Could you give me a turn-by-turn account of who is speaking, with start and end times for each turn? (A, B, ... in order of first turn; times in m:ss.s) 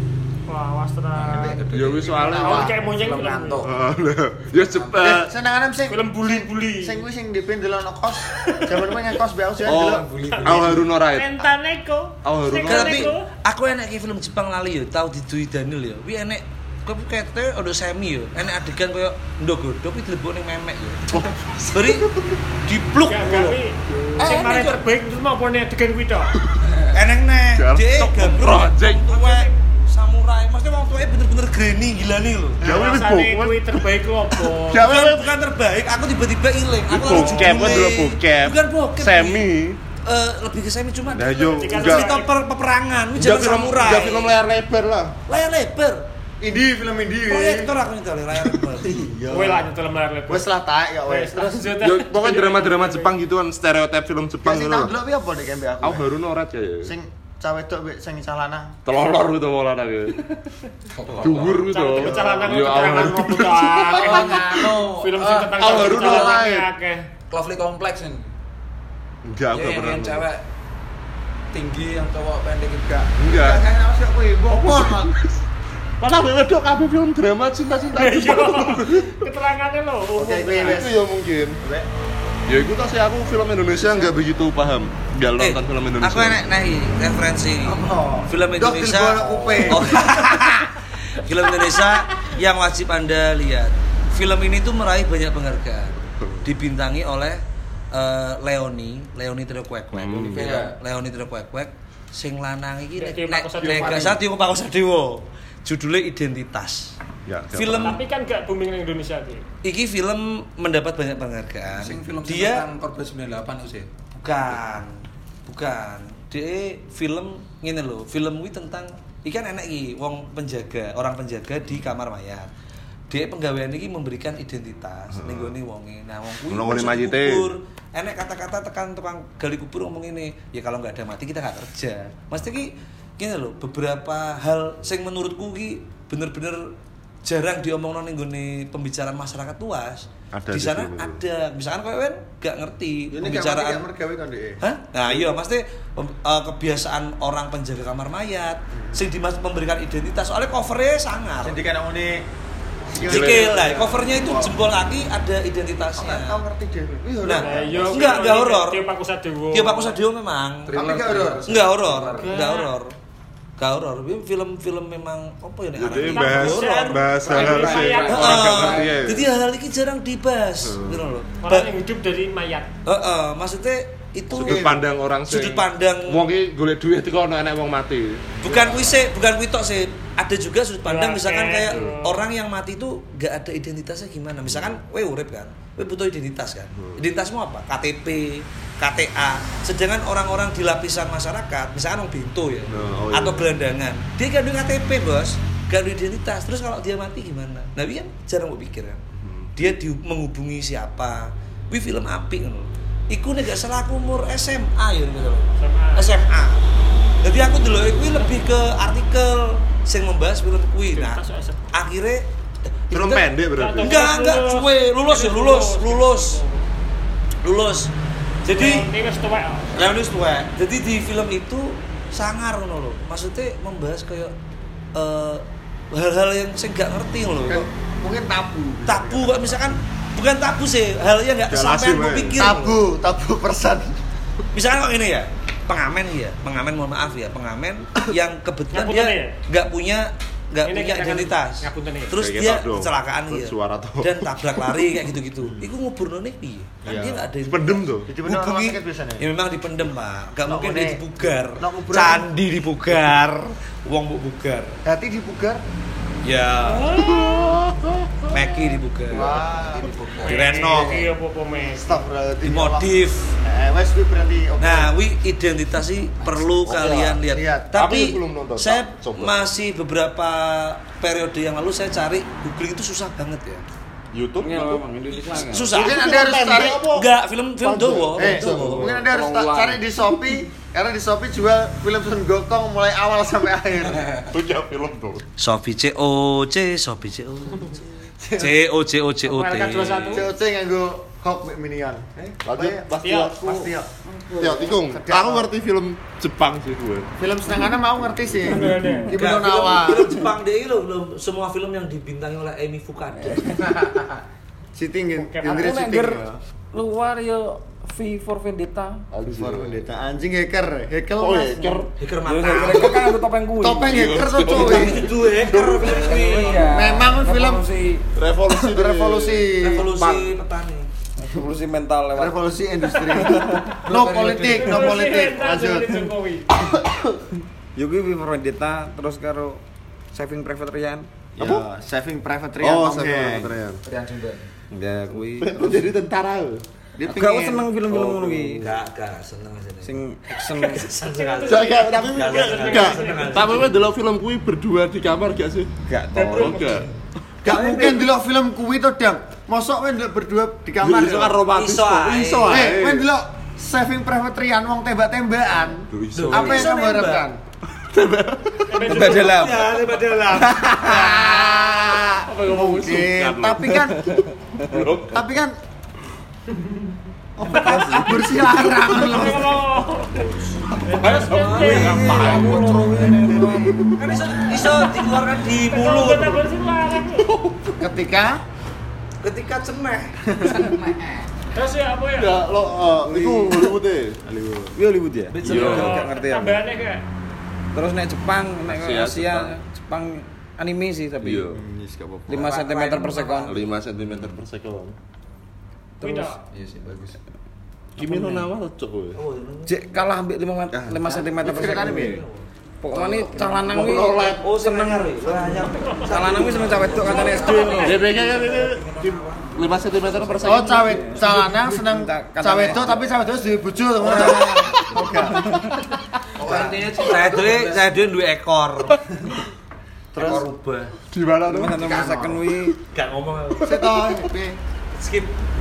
0:00.5-0:01.6 A
0:01.2-0:03.7 B
0:01.2-0:02.8 C
0:01.7-0:02.7 D
0:02.4-0:03.7 A
0:03.6-0:05.3 D
0:04.6-0:05.0 B
0:05.0-0:10.1 C
0:05.9-0:07.0 A
0:08.4-0:08.7 A
0:09.6-0:11.5 D
0:09.7-0:10.8 B
0:10.2-0:13.3 A
0:12.2-0:13.1 D
0:12.6-0:21.2 E
0:21.1-0:22.2 D
0:21.7-0:22.1 E
0:22.6-0:23.6 E
0:23.1-0:26.3 A
0:24.0-0:24.3 D
0:24.2-0:24.7 C
0:24.3-0:24.7 E
0:26.4-0:26.8 D
0:26.9-0:32.6 E
0:27.6-0:29.2 D
0:29.2-0:29.5 A
0:32.6-0:33.0 C
0:32.6-0:33.8 D
0:32.6-0:35.0 A
0:34.4-0:35.4 D
0:34.8-0:39.5 E
0:36.9-0:39.8 D
0:37.1-0:37.6 A
0:40.0-0:44.4 E
0:41.1-0:42.2 D
0:41.4-0:42.3 A
0:43.2-0:45.2 D
0:45.3-0:46.1 E
0:46.4-0:47.7 C
0:47.3-0:49.0 E
0:48.7-0:49.7 C
0:49.3-0:50.5 A
0:50.3-0:51.7 C
0:51.1-0:53.1 A
0:51.8-0:54.9 D
0:54.4-0:56.1 C
0:55.8-0:56.9 D
0:56.8-0:58.8 C
0:58.9-1:00.3 D
1:01.0-1:01.7 B
1:01.2-1:04.7 D
1:01.7-1:07.1 A
1:01.9-1:03.1 C
1:03.9-1:06.1 B
1:05.6-1:06.7 D
1:07.3-1:08.3 B
1:09.2-1:10.3 D
1:09.5-1:10.4 B
1:11.5-1:13.2 B
1:13.2-1:13.6 D
1:13.2-1:15.2 C
1:14.5-1:15.4 D
1:16.0-1:19.2 D
1:17.9-1:20.8 A
1:20.2-1:21.0 C
1:20.6-1:21.6 D
1:21.6-1:21.9 C
1:22.5-1:26.4 D
1:23.8-1:24.1 C
1:25.4-1:37.4 E
1:27.6-1:30.4 C
1:36.2-1:36.5 D
1:37.9-1:47.0 E
1:39.9-1:40.6 D
1:40.3-1:40.8 B
1:43.0-1:44.2 A
1:43.6-1:44.1 B
1:47.3-1:48.0 D
1:47.5-1:48.0 E
1:47.8-1:49.4 A
1:49.6-1:52.7 E
1:51.7-1:53.9 B
1:54.2-2:02.5 E
2:03.1-2:23.9 E
2:05.1-2:05.6 D
2:06.5-2:07.5 D
2:20.3-2:21.2 D
2:23.1-2:24.6 C
2:24.6-2:31.6 E
2:28.7-2:29.0 C
2:31.4-2:32.3 C
2:32.9-2:34.6 C
2:33.0-2:33.7 D
2:33.0-2:36.4 E
2:36.0-2:38.3 C
2:37.2-2:38.8 E
2:37.4-2:40.0 A
2:39.5-2:40.8 E
2:40.7-2:42.4 B
2:40.7-2:41.5 C
2:41.4-2:42.9 E
2:42.2-2:42.8 A
2:43.6-2:47.0 E
2:45.8-2:49.3 D
2:46.0-2:48.8 A
2:47.3-2:49.1 B
2:48.0-2:51.7 E
2:50.6-2:51.1 D
2:51.4-2:52.7 A
2:52.8-2:56.2 E
2:54.3-2:54.8 C
2:54.3-2:58.3 D
2:58.4-3:19.0 E
3:00.8-3:02.2 A
3:04.5-3:04.8 D
3:06.8-3:07.0 D
3:12.7-3:13.5 D
3:19.2-3:19.5 D
3:19.6-3:26.6 E
3:25.6-3:26.1 A
3:27.2-3:33.2 E
3:30.9-3:31.7 A
3:32.9-3:34.1 D
3:33.5-3:36.6 A
3:33.8-3:36.4 E
3:37.4-3:37.9 E
3:38.4-3:38.9 E
3:38.5-3:39.8 A
3:39.7-3:44.3 E
3:45.0-3:47.7 E
3:47.5-3:49.8 C
3:48.9-3:52.8 E
3:51.5-3:52.4 D
3:52.4-3:54.0 C
3:54.5-4:14.8 E
3:58.7-3:59.4 A
4:00.6-4:02.2 A
4:02.1-4:05.0 D
4:05.4-4:05.7 C
4:06.8-4:07.3 C
4:07.4-4:08.1 D
4:08.1-4:09.3 C
4:10.4-4:12.3 C
4:14.8-4:15.6 C
4:16.2-4:17.1 E
4:16.8-4:17.5 A
4:16.9-4:18.7 D
4:18.3-4:19.4 E
4:19.1-4:19.9 C
4:19.6-4:20.6 B
4:20.2-4:22.0 A
4:20.2-4:21.1 E
4:21.7-4:25.0 C
4:22.4-4:23.4 E
4:24.6-4:33.6 E
4:26.6-4:27.2 D
4:27.3-4:27.7 C
4:27.7-4:29.5 D
4:34.1-4:34.8 D
4:34.4-4:35.7 F
4:35.3-4:36.0 E
4:35.7-4:36.9 C
4:35.7-4:37.1 D
4:36.9-4:38.8 E
4:37.6-4:39.8 D
4:38.2-4:44.1 C
4:44.2-4:45.3 D
4:45.4-4:47.8 E
4:48.2-4:48.6 C
4:48.4-4:50.3 E
4:49.3-4:50.3 A
4:50.1-4:53.9 C
4:52.4-4:53.5 D
4:53.0-4:53.5 A
4:54.0-4:54.7 F
4:54.4-4:57.1 D
4:54.6-4:55.5 C
4:57.2-5:00.2 C
4:58.5-4:59.1 A
4:58.8-4:59.0 F
4:59.1-5:03.6 E
5:03.2-5:03.8 F
5:04.8-5:06.4 C
5:05.2-5:05.8 A
5:05.4-5:09.0 F
5:09.1-5:09.8 D
5:09.2-5:11.6 C
5:11.2-5:11.9 D
5:11.6-5:14.2 F
5:12.0-5:13.0 E
5:12.5-5:13.0 D
5:13.6-5:15.1 C
5:13.9-5:16.4 D
5:14.5-5:16.7 E
5:15.5-5:18.0 F
5:16.5-5:17.6 C
5:18.2-5:19.5 D
5:18.5-5:19.9 C
5:19.6-5:20.9 E
5:20.0-5:20.3 D
5:21.2-5:22.4 F
5:22.2-5:26.0 C
5:23.8-5:25.0 B
5:24.5-5:26.5 A
5:26.7-5:27.0 D
5:27.8-5:29.6 F
5:30.1-5:31.1 F
5:31.4-5:33.6 C
5:31.4-5:31.6 D
5:32.6-5:33.8 D
5:33.8-5:34.5 B
5:34.7-5:35.9 F
5:35.4-5:36.6 D
5:37.0-5:37.7 C
5:37.1-5:38.7 F
5:37.9-5:38.8 D
5:38.6-5:43.7 E
5:39.8-5:40.9 F
5:41.1-5:43.7 A
5:41.5-5:45.7 D
5:45.9-5:46.8 F
5:46.2-5:46.9 A
5:46.3-5:46.9 D
5:47.4-5:48.1 E
5:47.4-5:51.4 C
5:50.8-5:53.1 D
5:51.5-5:52.7 E
5:52.4-5:57.4 C
5:55.8-5:56.7 D
5:56.1-5:57.3 E
5:57.9-5:59.0 D
5:58.7-5:59.5 A
5:58.8-6:01.4 F
5:59.0-6:00.9 E
6:00.6-6:04.1 C
6:02.3-6:02.9 A
6:02.3-6:05.2 D
6:04.1-6:04.9 F
6:05.1-6:05.6 C
6:06.5-6:06.9 A
6:07.4-6:09.6 C
6:07.4-6:08.4 F
6:07.5-6:08.0 A
6:08.8-6:12.4 A
6:10.9-6:14.6 D
6:11.1-6:12.2 E
6:11.5-6:13.9 F
6:14.0-6:16.5 E
6:15.7-6:17.3 A
6:17.1-6:17.8 D
6:17.8-6:18.4 C
6:19.2-6:20.2 E
6:20.3-6:20.7 C
6:20.5-6:21.2 B
6:21.5-6:22.4 A
6:22.2-6:24.2 D
6:23.0-6:23.7 F
6:24.2-6:24.8 C
6:24.8-6:26.6 F
6:25.3-6:26.0 E
6:25.4-6:26.1 D
6:25.6-6:27.0 A
6:27.7-6:31.5 F
6:28.7-6:29.6 D
6:31.2-6:31.6 D
6:31.5-6:32.5 C
6:32.3-6:33.6 F
6:32.6-6:33.4 B
6:33.5-6:35.0 D
6:36.0-6:36.4 F
6:36.0-6:36.4 A
6:36.5-6:37.2 B
6:38.0-6:39.2 D
6:38.0-6:38.5 F
6:39.1-6:39.8 E
6:39.7-6:42.2 F
6:40.7-6:41.0 D
6:41.4-6:42.2 C
6:41.4-6:50.0 E
6:42.8-6:48.2 F
6:43.4-6:44.5 D
6:45.9-6:46.2 A
6:46.8-6:48.0 B
6:47.1-6:48.0 A
6:47.8-6:51.3 D
6:50.0-6:53.2 F
6:50.4-6:55.5 C
6:54.0-6:55.8 F
6:56.4-6:57.9 B
6:56.5-6:59.0 E
7:00.1-7:00.5 C
7:00.2-7:00.9 E
7:01.1-7:02.1 D
7:01.4-7:02.8 F
7:01.8-7:02.4 B
7:02.9-7:03.8 E
7:03.6-7:04.6 C
7:03.7-7:04.0 D
7:05.0-7:05.4 E